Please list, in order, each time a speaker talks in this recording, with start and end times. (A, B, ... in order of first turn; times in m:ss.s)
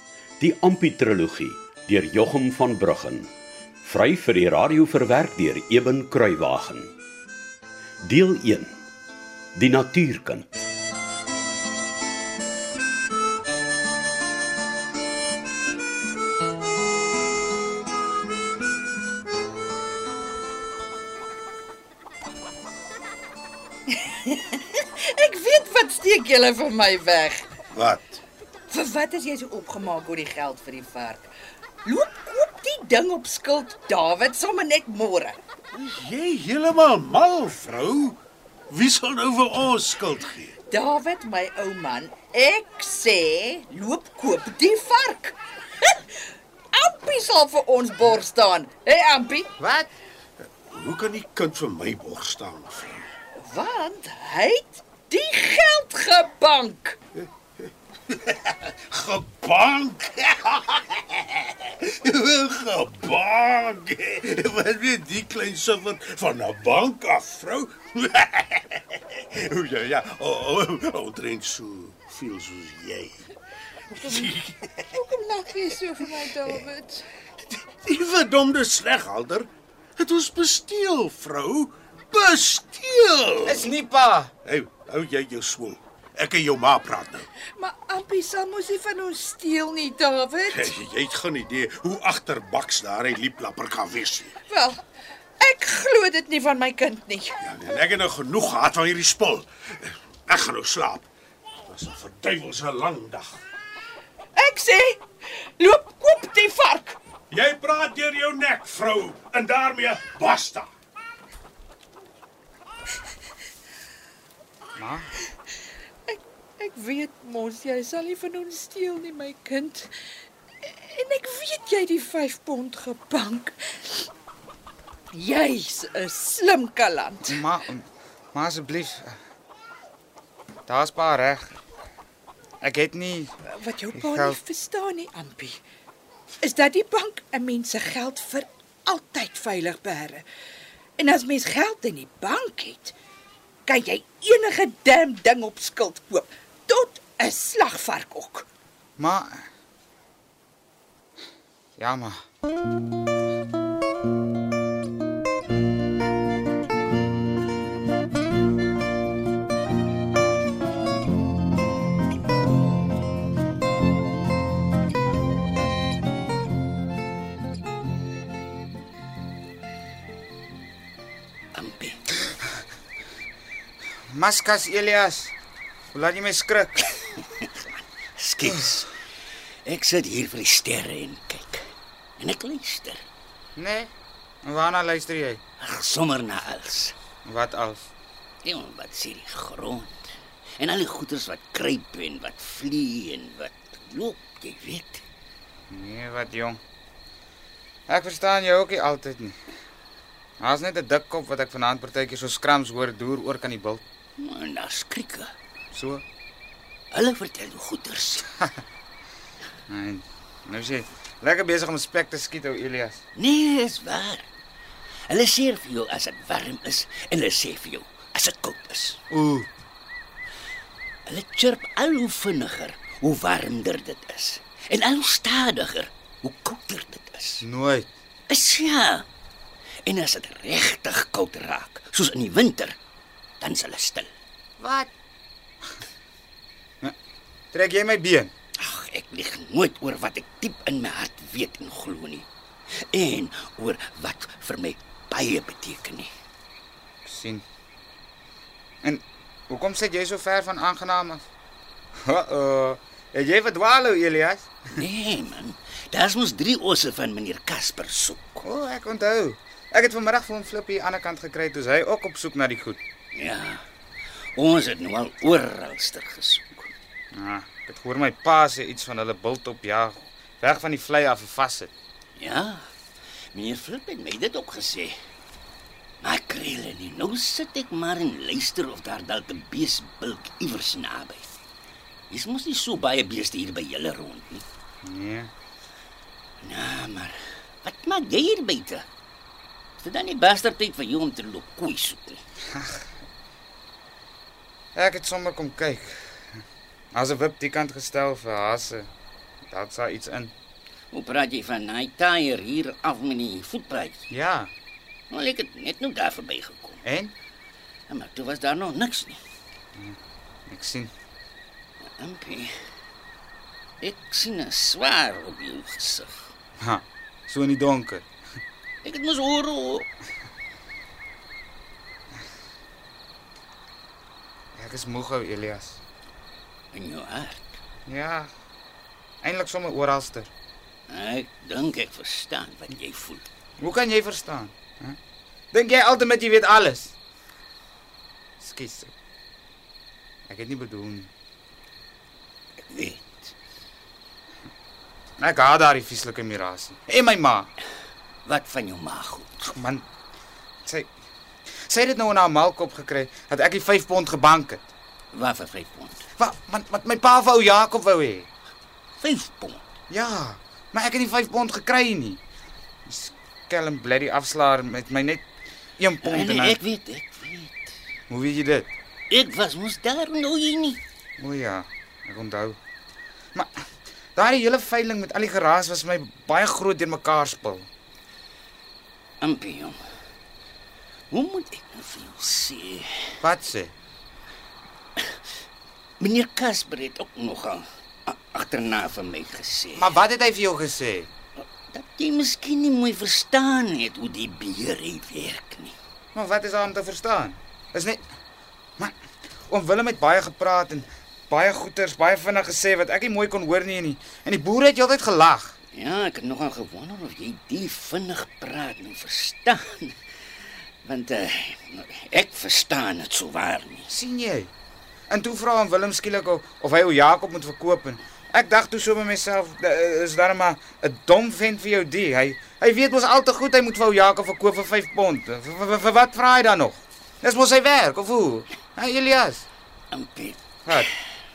0:00.4-0:03.3 A
0:03.8-0:06.9 A
0:08.0-0:08.8 A
0:09.5-0:10.5 A
0:24.0-0:27.5 B
0:27.7-0:28.2 C
0:28.7-0:31.2 B
0:31.8-0:35.4 B
0:35.7-0:38.2 C
0:38.7-0:40.5 C
0:40.7-0:46.0 B
0:46.7-0:49.5 B
0:49.6-0:49.9 D
0:50.7-0:53.1 C
0:53.4-0:57.0 B
0:58.1-1:13.2 C
1:13.9-1:14.9 C
1:15.2-1:17.0 B
1:17.8-1:23.7 C
1:23.4-1:24.3 D
1:24.4-1:27.3 C
1:27.5-1:30.6 B
1:30.4-1:34.4 C
1:34.5-1:34.8 B
1:35.4-1:37.4 B
1:37.4-1:41.1 C
1:41.7-1:43.4 C
1:44.3-1:45.0 B
1:45.5-1:47.0 B
1:47.3-1:50.7 C
1:54.8-1:55.1 D
1:56.1-1:59.9 B
2:00.6-2:03.9 B
2:05.1-2:07.4 B
2:07.2-2:09.1 D
2:10.7-2:11.6 D
2:12.6-2:13.3 D
2:13.5-2:15.6 B
2:13.9-2:14.4 D
2:16.4-2:20.2 B
2:21.0-2:22.9 B
2:23.6-2:28.4 B
2:29.0-2:29.4 D
2:31.8-2:32.2 D
2:51.5-2:52.1 E
2:54.1-2:55.3 D
2:55.9-2:56.9 D
2:57.4-2:57.6 E
2:58.2-2:58.9 E
2:59.6-3:01.7 E
3:02.2-3:03.0 E
3:03.6-3:03.9 D
3:04.4-3:05.4 D
3:05.6-3:06.9 E
3:07.2-3:07.9 D
3:08.4-3:15.0 E
3:15.7-3:16.6 D
3:17.9-3:19.4 D
3:20.4-3:23.8 D
3:24.2-3:25.3 E
3:25.7-3:26.0 D
3:26.9-3:28.3 E
3:29.7-3:33.0 D
3:33.2-3:34.2 E
3:35.1-3:39.0 E
3:39.1-3:39.5 D
3:41.0-3:47.4 E
3:47.4-3:47.9 D
3:48.3-3:49.0 E
3:49.8-3:52.8 E
3:53.4-3:54.1 E
3:54.6-3:54.9 D
3:57.5-3:58.3 D
3:58.6-4:02.2 E
4:02.9-4:06.1 E
4:07.0-4:07.4 D
4:08.8-4:11.2 D
4:12.0-4:14.5 D
4:14.8-4:18.4 E
4:18.4-4:22.8 D
4:23.1-4:23.6 E
4:24.3-4:26.7 E
4:27.1-4:31.7 D
4:32.2-4:32.7 E
4:33.3-4:35.0 E
4:36.0-4:41.3 E
4:42.1-4:44.4 E
4:44.8-4:45.3 D
4:46.4-4:48.8 E
4:49.8-4:52.2 E
4:52.5-4:52.8 D
4:54.7-4:56.1 D
4:56.9-4:58.9 D
4:59.5-5:00.3 D
5:00.9-5:04.0 E
5:04.1-5:04.5 D
5:05.1-5:06.8 E
5:06.8-5:07.1 D
5:07.9-5:09.2 E
5:10.5-5:10.9 D
5:12.0-5:12.5 E
5:13.8-5:16.2 E
5:16.6-5:18.0 D
5:18.8-5:19.9 E
5:24.5-5:25.8 D
5:26.7-5:27.5 E
5:27.9-5:28.3 D
5:29.2-5:30.3 D
5:30.9-5:33.2 E
5:33.6-5:35.0 D
5:35.5-5:36.9 D
5:38.4-5:38.9 D
5:40.3-5:41.1 D
5:42.6-5:43.3 E
5:45.2-5:47.5 D
5:48.2-5:49.5 E
5:49.5-5:49.8 D
5:50.6-5:50.9 D
5:51.7-5:54.7 D
5:55.1-5:56.0 E
5:56.2-5:58.3 D
5:59.0-5:59.6 E
5:59.9-6:02.2 D
6:02.8-6:05.2 D
6:05.8-6:06.6 D
6:06.0-6:07.6 E
6:08.1-6:08.7 D
6:09.1-6:10.8 E
6:11.2-6:12.6 D
6:14.2-6:17.7 D
6:19.2-6:19.8 E
6:21.1-6:23.0 E
6:23.2-6:23.7 D
6:26.0-6:30.0 E
6:29.7-6:31.1 D
6:31.7-6:35.7 E
6:36.1-6:38.0 D
6:39.5-6:45.6 D
6:45.7-6:50.0 E
6:50.8-6:53.9 E
6:53.9-6:54.5 D
6:55.1-7:09.4 D
7:09.9-7:10.8 E
7:10.6-7:10.9 D